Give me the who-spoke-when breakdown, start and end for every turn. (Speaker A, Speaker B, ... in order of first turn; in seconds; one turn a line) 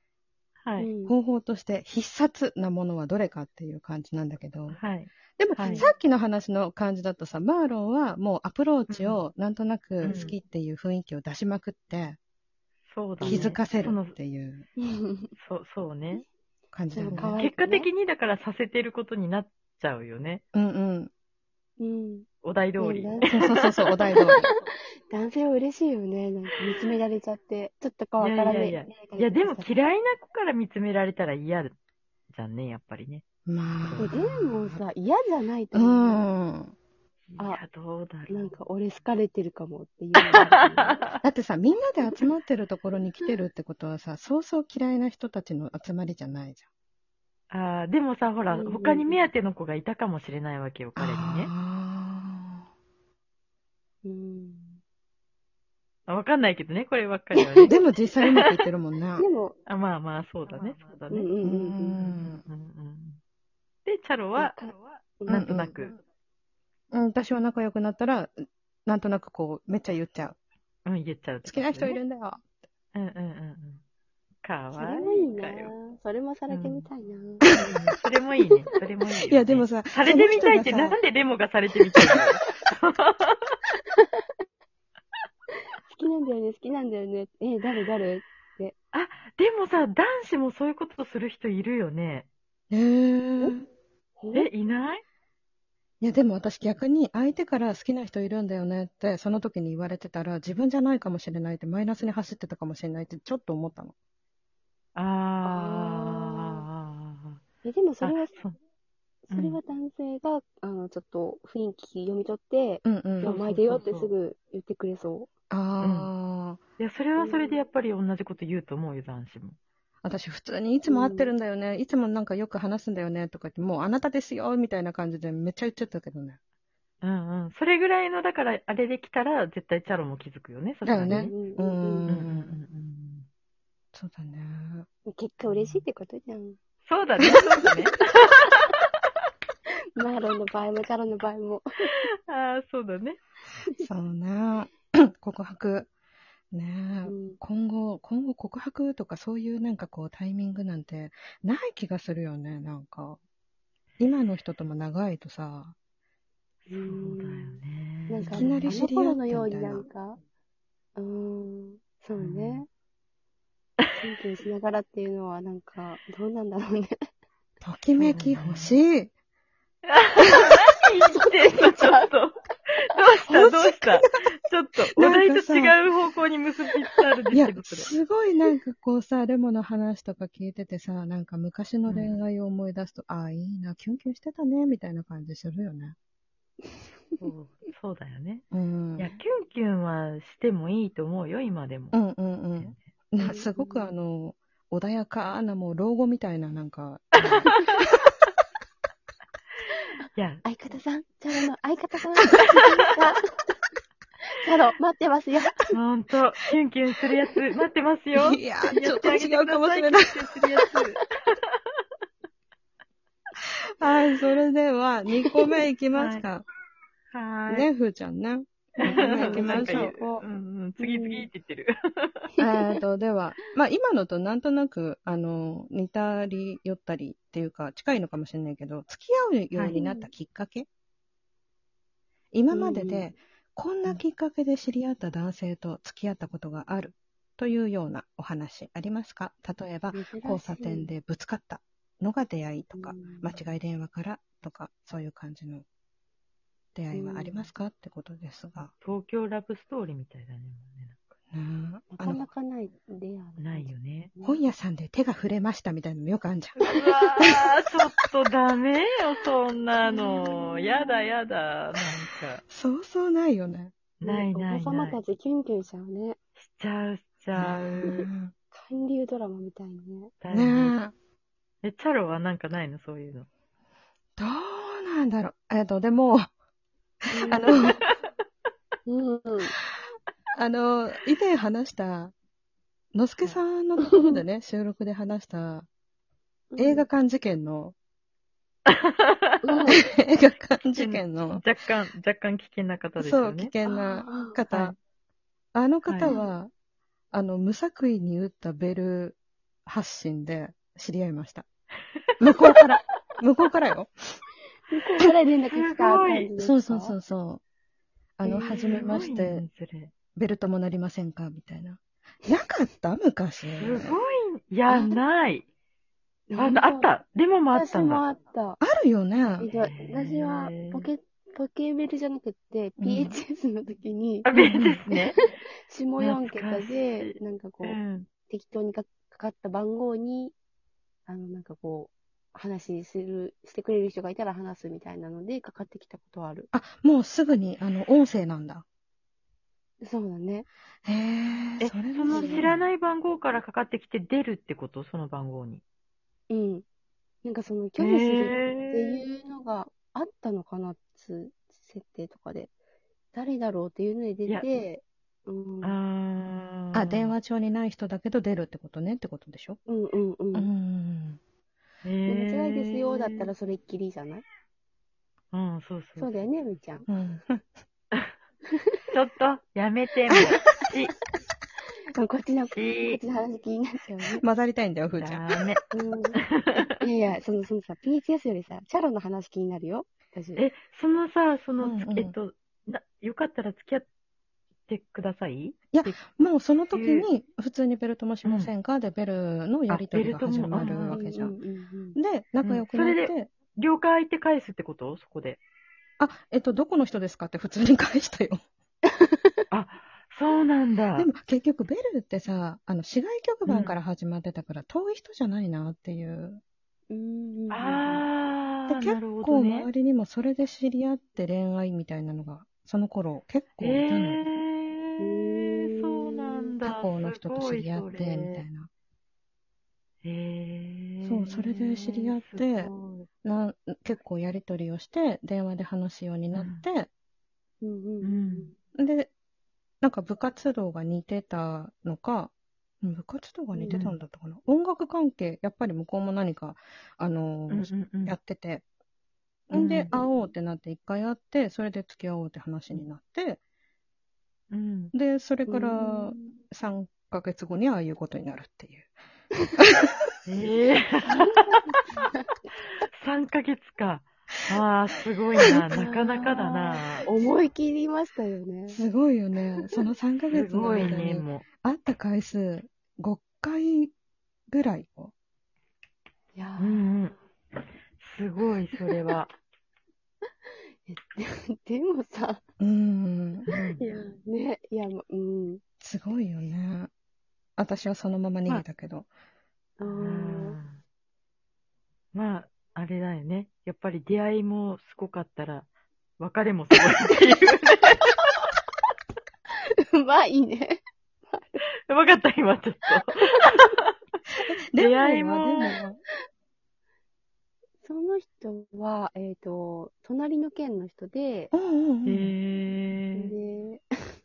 Speaker A: 0.6-0.9
Speaker B: 0.8-1.1
Speaker C: 1.1-4.8
Speaker A: 4.7-5.9
Speaker C: 5.3-12.2
Speaker B: 5.6-6.0
Speaker A: 8.9-9.2
Speaker A: 10.0-10.3
Speaker A: 12.9-14.2
Speaker B: 13.2-13.6
Speaker C: 13.2-14.7
Speaker B: 14.8-15.3
Speaker A: 15.4-16.2
Speaker C: 16.7-17.4
Speaker B: 16.9-17.9
Speaker A: 17.1-20.4
Speaker C: 20.5-21.1
Speaker B: 21.8-22.3
Speaker A: 22.4-23.6
Speaker B: 22.8-24.5
Speaker C: 23.3-24.5
Speaker B: 25.1-29.7
Speaker A: 28.2-31.8
Speaker A: 32.3-33.2
Speaker C: 33.5-34.8
Speaker A: 33.8-34.2
Speaker B: 34.0-36.3
Speaker C: 35.7-36.7
Speaker A: 37.3-38.6
Speaker B: 38.3-41.0
Speaker A: 40.4-41.2
Speaker C: 41.2-46.6
Speaker A: 47.5-51.5
Speaker B: 48.5-49.2
Speaker C: 51.0-52.6
Speaker B: 54.0-54.8
Speaker A: 56.1-57.8
Speaker B: 57.4-57.7
Speaker C: 57.7-59.2
Speaker B: 59.2-59.6
Speaker A: 59.7-61.3
Speaker B: 61.1-62.0
Speaker C: 61.4-62.4
Speaker A: 62.0-63.2
Speaker A: 63.9-66.0
Speaker B: 64.4-65.6
Speaker C: 65.3-65.8
Speaker C: 66.9-70.4
Speaker A: 70.9-72.0
Speaker C: 71.5-72.4
Speaker A: 73.0-73.8
Speaker A: 74.4-75.7
Speaker B: 74.8-77.8
Speaker A: 76.5-76.9
Speaker A: 77.5-83.6
Speaker C: 79.3-81.0
Speaker B: 85.9-88.7
Speaker A: 88.9-92.3
Speaker C: 92.7-93.6
Speaker B: 94.2-94.5
Speaker A: 94.3-95.0
Speaker C: 96.0-103.9
Speaker A: 105.0-107.4
Speaker B: 105.4-106.6
Speaker B: 107.6-108.3
Speaker A: 108.0-108.6
Speaker B: 109.3-115.3
Speaker A: 109.3-109.6
Speaker C: 112.8-113.3
Speaker A: 113.2-114.1
Speaker C: 115.5-116.6
Speaker A: 115.8-116.1
Speaker A: 116.8-119.6
Speaker B: 117.2-117.6
Speaker C: 120.0-126.4
Speaker B: 120.9-121.3
Speaker A: 127.0-131.3
Speaker C: 130.8-132.5
Speaker B: 131.1-132.1
Speaker A: 132.1-133.2
Speaker C: 133.9-134.9
Speaker B: 135.1-136.6
Speaker A: 135.4-135.8
Speaker A: 136.8-138.8
Speaker B: 137.9-138.4
Speaker B: 139.9-142.0
Speaker A: 141.9-143.2
Speaker C: 143.8-145.9
Speaker C: 146.5-153.2
Speaker B: 147.1-147.4
Speaker C: 154.0-155.7
Speaker B: 156.7-160.2
Speaker A: 156.7-158.8
Speaker C: 158.2-159.8
Speaker B: 160.9-162.7
Speaker A: 162.2-162.6
Speaker B: 164.0-166.9
Speaker C: 167.6-169.1
Speaker A: 168.0-168.8
Speaker A: 169.9-177.9
Speaker B: 171.1-172.1
Speaker C: 173.3-174.3
Speaker C: 174.9-175.7
Speaker C: 177.3-185.9
Speaker A: 181.9-182.2
Speaker A: 187.2-188.4
Speaker C: 188.5-189.2
Speaker A: 189.0-192.0
Speaker C: 191.9-197.5
Speaker A: 192.6-192.8
Speaker B: 193.2-193.9
Speaker A: 197.3-197.6
Speaker A: 200.1-200.4
Speaker B: 200.4-203.3
Speaker B: 204.4-205.8
Speaker A: 205.7-211.0
Speaker C: 208.1-210.2
Speaker C: 213.8-216.4
Speaker A: 215.9-216.2
Speaker A: 217.1-217.7
Speaker C: 217.5-220.0
Speaker B: 218.8-220.2
Speaker A: 218.8-222.3
Speaker B: 220.8-221.3
Speaker C: 222.4-230.7
Speaker A: 229.5-229.8
Speaker B: 229.7-230.1
Speaker C: 232.3-245.7
Speaker B: 232.5-233.1
Speaker B: 239.9-240.9
Speaker B: 242.7-243.3
Speaker C: 246.7-248.7
Speaker B: 246.9-247.5
Speaker A: 248.8-251.1
Speaker C: 251.3-252.2
Speaker B: 251.9-254.4
Speaker A: 253.4-254.1
Speaker C: 254.2-256.7
Speaker B: 256.6-257.2
Speaker A: 256.8-262.4
Speaker B: 259.9-261.0
Speaker C: 262.5-263.7
Speaker A: 264.0-265.0
Speaker B: 264.0-266.2
Speaker A: 266.4-267.9
Speaker C: 267.4-268.3
Speaker B: 267.8-270.1
Speaker A: 270.2-270.8
Speaker C: 270.3-270.9
Speaker A: 271.6-273.3
Speaker C: 274.2-276.3
Speaker B: 277.1-277.7
Speaker C: 277.3-277.8
Speaker A: 277.6-277.9
Speaker B: 278.9-279.5
Speaker C: 280.4-282.1
Speaker C: 282.9-285.7
Speaker B: 283.9-284.1
Speaker B: 286.5-286.9
Speaker C: 286.6-287.8
Speaker A: 288.7-289.7
Speaker B: 289.4-289.8
Speaker C: 289.7-291.4
Speaker A: 290.8-293.5
Speaker C: 293.0-294.8
Speaker B: 293.6-294.4
Speaker A: 294.5-294.8
Speaker C: 295.5-296.5
Speaker A: 295.9-296.2
Speaker B: 296.1-296.3
Speaker C: 297.1-301.4
Speaker C: 302.2-304.2
Speaker B: 304.7-307.0
Speaker A: 305.5-306.3
Speaker C: 306.4-307.4
Speaker C: 308.2-309.5
Speaker B: 308.2-309.0
Speaker A: 308.4-309.9
Speaker C: 310.1-313.9
Speaker A: 313.6-315.5
Speaker B: 314.7-315.0
Speaker B: 316.3-316.9
Speaker A: 316.4-318.0
Speaker B: 317.5-318.6
Speaker C: 318.6-319.5
Speaker B: 319.4-324.3
Speaker A: 319.5-320.9
Speaker C: 322.8-323.2
Speaker A: 324.2-325.2
Speaker C: 324.3-324.8
Speaker B: 324.9-327.8
Speaker A: 326.0-328.1
Speaker B: 328.3-330.3
Speaker B: 331.1-336.5
Speaker C: 336.5-338.6
Speaker B: 339.8-340.5
Speaker C: 340.9-342.7
Speaker A: 341.6-345.6
Speaker B: 342.1-342.5
Speaker B: 346.3-346.6
Speaker B: 347.2-352.5
Speaker A: 347.8-349.0
Speaker B: 353.1-355.8
Speaker A: 355.6-357.1
Speaker C: 356.7-359.6
Speaker B: 359.7-360.5
Speaker C: 360.3-361.2
Speaker A: 361.8-363.3
Speaker B: 362.1-364.2
Speaker A: 365.3-366.2
Speaker B: 366.0-366.9
Speaker C: 366.9-367.4
Speaker A: 368.9-370.9
Speaker B: 371.9-374.2
Speaker A: 372.5-373.0
Speaker C: 374.0-375.2
Speaker A: 374.9-375.6
Speaker B: 375.7-376.2
Speaker A: 376.2-376.6
Speaker B: 376.8-380.5
Speaker A: 380.4-383.9
Speaker C: 381.6-382.2
Speaker A: 384.7-386.0
Speaker C: 385.7-391.4
Speaker A: 386.7-387.1
Speaker A: 388.2-388.5
Speaker A: 389.7-391.0
Speaker B: 390.6-392.0
Speaker C: 392.0-393.3
Speaker A: 392.4-395.4
Speaker C: 396.0-398.4
Speaker A: 399.5-401.1
Speaker C: 401.0-406.4
Speaker A: 403.5-403.8
Speaker B: 406.9-408.1
Speaker A: 407.5-409.7
Speaker C: 408.7-414.2
Speaker A: 413.6-418.4
Speaker B: 415.0-416.5
Speaker C: 416.6-418.7
Speaker A: 420.0-423.1
Speaker C: 421.0-422.7
Speaker C: 423.2-426.9
Speaker A: 426.3-426.6
Speaker B: 427.6-428.6
Speaker A: 428.0-428.5
Speaker C: 428.8-429.1
Speaker C: 429.8-438.6
Speaker B: 433.6-433.8
Speaker A: 433.7-434.0
Speaker A: 437.5-438.2
Speaker C: 439.5-443.4
Speaker A: 439.5-439.9
Speaker B: 439.9-440.2
Speaker A: 444.5-444.9
Speaker C: 444.9-448.9
Speaker B: 445.5-446.4
Speaker A: 450.2-451.5
Speaker B: 451.1-452.2
Speaker A: 453.0-457.1
Speaker B: 455.7-458.8
Speaker C: 458.7-463.9
Speaker A: 460.3-461.4
Speaker C: 464.5-465.1
Speaker B: 466.4-466.9
Speaker A: 466.6-467.1
Speaker A: 468.0-469.4
Speaker B: 470.9-472.4
Speaker C: 472.6-473.4
Speaker B: 473.5-475.6
Speaker A: 473.5-473.8
Speaker C: 475.8-476.9
Speaker C: 477.6-479.1
Speaker B: 479.8-480.6
Speaker A: 479.9-480.8
Speaker A: 482.1-485.7
Speaker A: 486.2-488.1
Speaker B: 489.9-491.6
Speaker A: 491.9-493.9
Speaker C: 494.7-496.0
Speaker A: 494.8-495.7
Speaker B: 497.8-501.5
Speaker C: 501.5-502.3
Speaker A: 502.1-503.3
Speaker B: 503.1-503.8